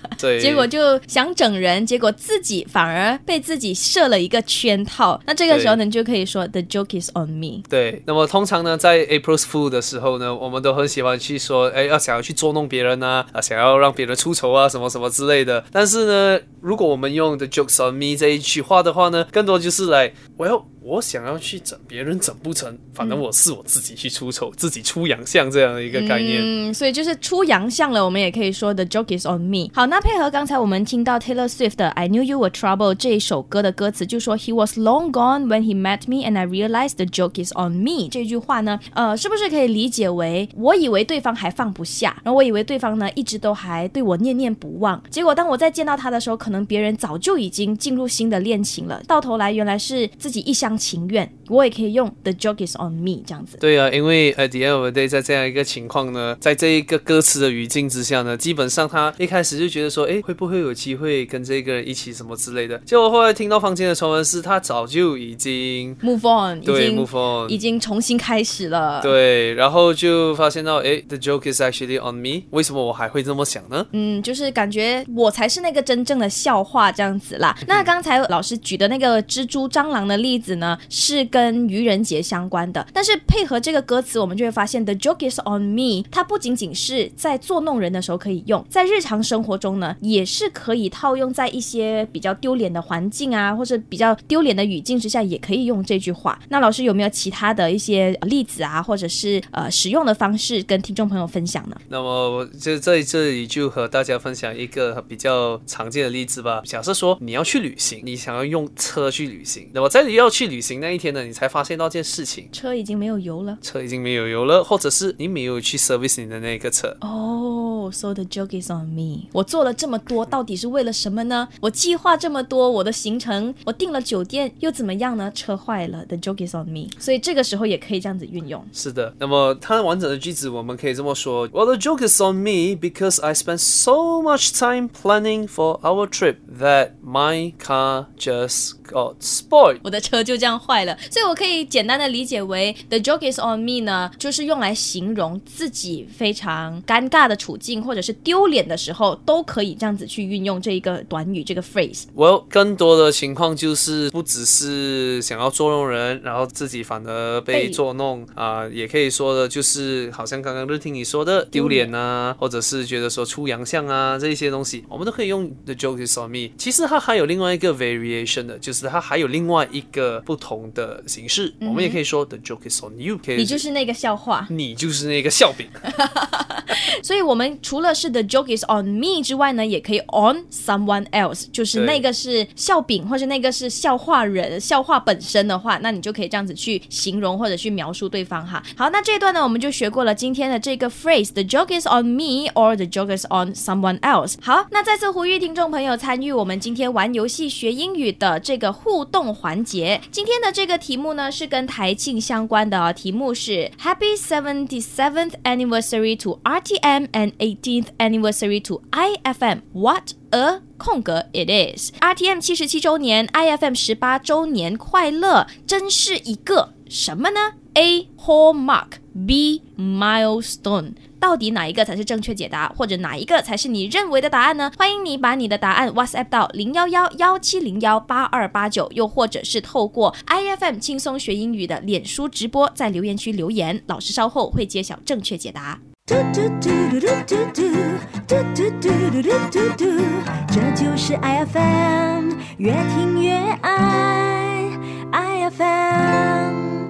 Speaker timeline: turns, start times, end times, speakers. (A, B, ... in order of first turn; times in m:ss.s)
0:00.2-0:00.7 A
0:00.4-0:07.6 B
0:05.5-0:05.8 A
0:07.7-0:26.5 A
0:25.9-0:53.6 B
0:53.6-1:06.0 A
1:06.0-1:09.1 B
1:06.6-1:07.6 A
1:09.0-1:13.9 A
1:13.9-1:41.8 B
1:41.9-1:52.5 A
1:52.5-1:53.6 B
1:53.6-1:57.0 A
1:57.0-2:08.7 B
2:08.7-2:19.8 A
2:19.8-2:32.1 B
2:32.2-2:53.6 A
2:37.5-2:37.8 B
2:41.5-2:41.9 B
2:51.6-2:52.0 B
2:53.4-2:54.5 B
2:54.5-2:55.8 A
2:55.9-3:55.8 B
3:01.7-3:02.0 A
3:56.1-3:57.8 C
3:58.3-4:00.0 C
4:00.8-4:06.6 C